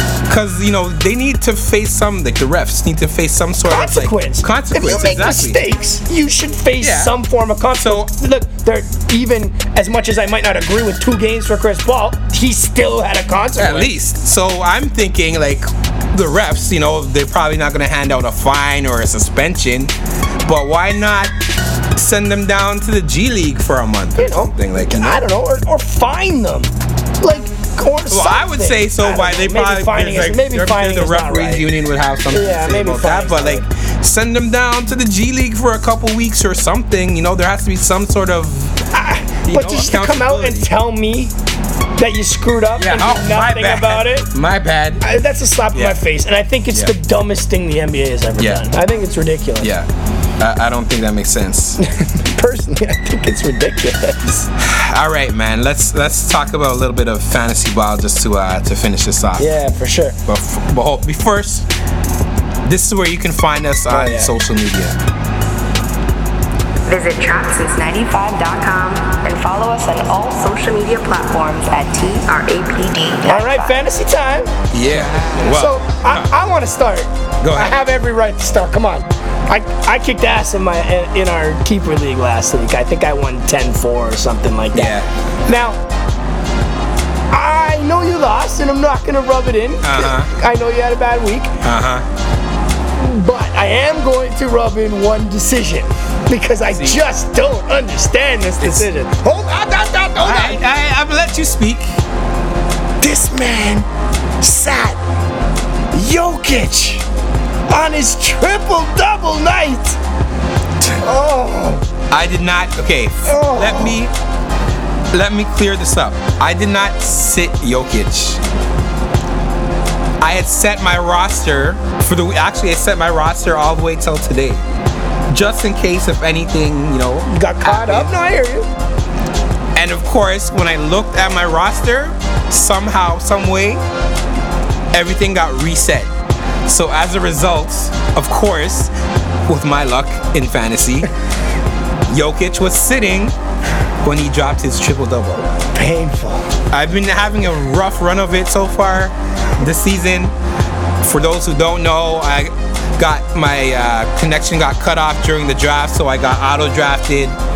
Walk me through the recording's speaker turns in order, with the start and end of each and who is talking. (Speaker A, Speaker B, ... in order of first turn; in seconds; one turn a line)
Speaker A: 0.3-5.6
Speaker B: 3.6-13.9
Speaker A: 6.8-7.2
Speaker A: 7.7-8.1
Speaker A: 13.6-19.9
Speaker A: 20.4-21.3
Speaker A: 21.9-25.2
Speaker B: 24.2-31.6
Speaker A: 28.1-38.8
Speaker B: 32.3-33.6
Speaker B: 38.9-41.3
Speaker A: 39.5-40.7
Speaker B: 42.0-44.3
Speaker A: 42.8-45.0
Speaker B: 45.0-49.7
Speaker A: 45.7-46.0
Speaker A: 48.4-48.7
Speaker A: 49.6-49.9
Speaker A: 50.4-51.8
Speaker B: 51.8-54.5
Speaker A: 54.5-59.6
Speaker B: 59.4-60.2
Speaker A: 60.3-61.7
Speaker A: 62.6-65.0
Speaker B: 63.9-64.3
Speaker C: 66.9-73.8
Speaker B: 73.2-74.5
Speaker A: 74.7-76.3
Speaker B: 75.3-85.8
Speaker A: 77.4-77.8
Speaker A: 84.7-85.1
Speaker B: 87.3-91.6
Speaker A: 89.8-90.3
Speaker A: 91.6-92.1
Speaker B: 93.0-100.6
Speaker A: 96.7-97.0
Speaker A: 98.6-98.9
Speaker A: 100.2-102.0
Speaker B: 103.0-103.9
Speaker B: 104.4-105.0
Speaker B: 105.9-107.0
Speaker B: 107.7-110.0
Speaker B: 111.0-111.8
Speaker A: 112.1-114.1
Speaker B: 113.2-114.0
Speaker A: 115.1-118.4
Speaker A: 120.2-124.6
Speaker A: 125.3-128.1
Speaker B: 127.3-128.7
Speaker A: 129.8-133.8
Speaker A: 134.9-136.1
Speaker A: 136.7-138.9
Speaker A: 139.5-141.1
Speaker A: 142.1-143.3
Speaker A: 144.0-145.5
Speaker B: 145.7-146.5
Speaker A: 146.7-150.3
Speaker A: 151.0-157.4